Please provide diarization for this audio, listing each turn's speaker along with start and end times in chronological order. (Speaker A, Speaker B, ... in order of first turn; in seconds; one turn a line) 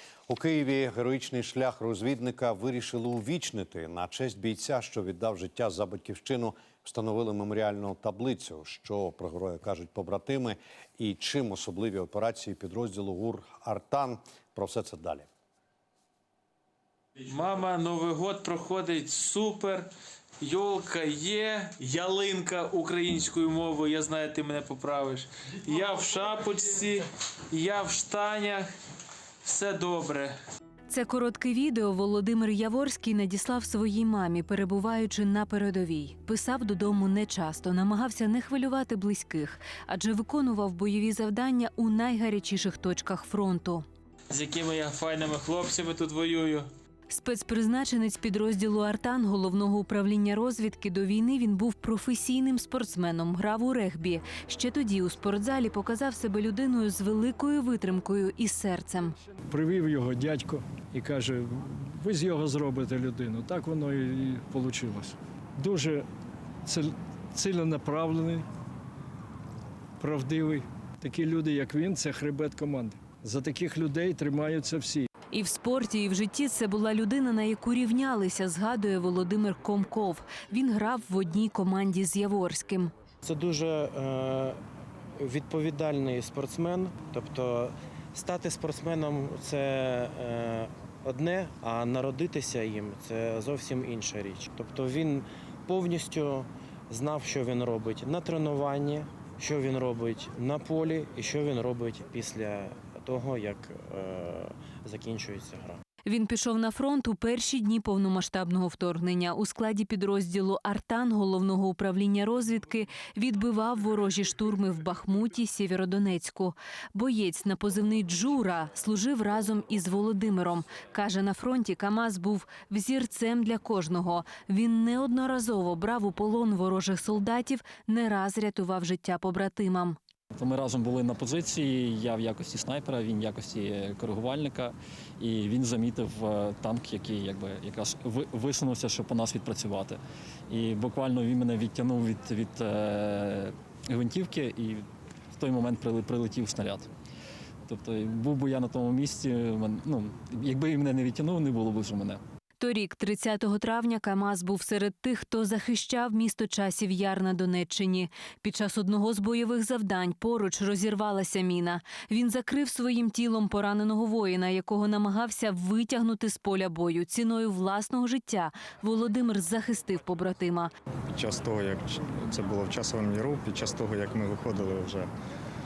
Speaker A: 0.3-15.3
Speaker B: 17.2-19.9
Speaker B: 20.4-28.7
Speaker B: 29.4-30.4
Speaker C: 30.9-43.8
Speaker B: 44.3-46.7
Speaker C: 47.1-59.2
Speaker D: 59.5-66.1
Speaker D: 66.7-68.5
Speaker D: 70.0-75.1
Speaker C: 75.3-82.9
Speaker E: 83.2-84.6
Speaker E: 85.2-105.8
Speaker C: 106.1-130.0
Speaker F: 130.3-146.9
Speaker F: 147.7-152.2
Speaker C: 152.6-170.7
Speaker G: 171.1-175.1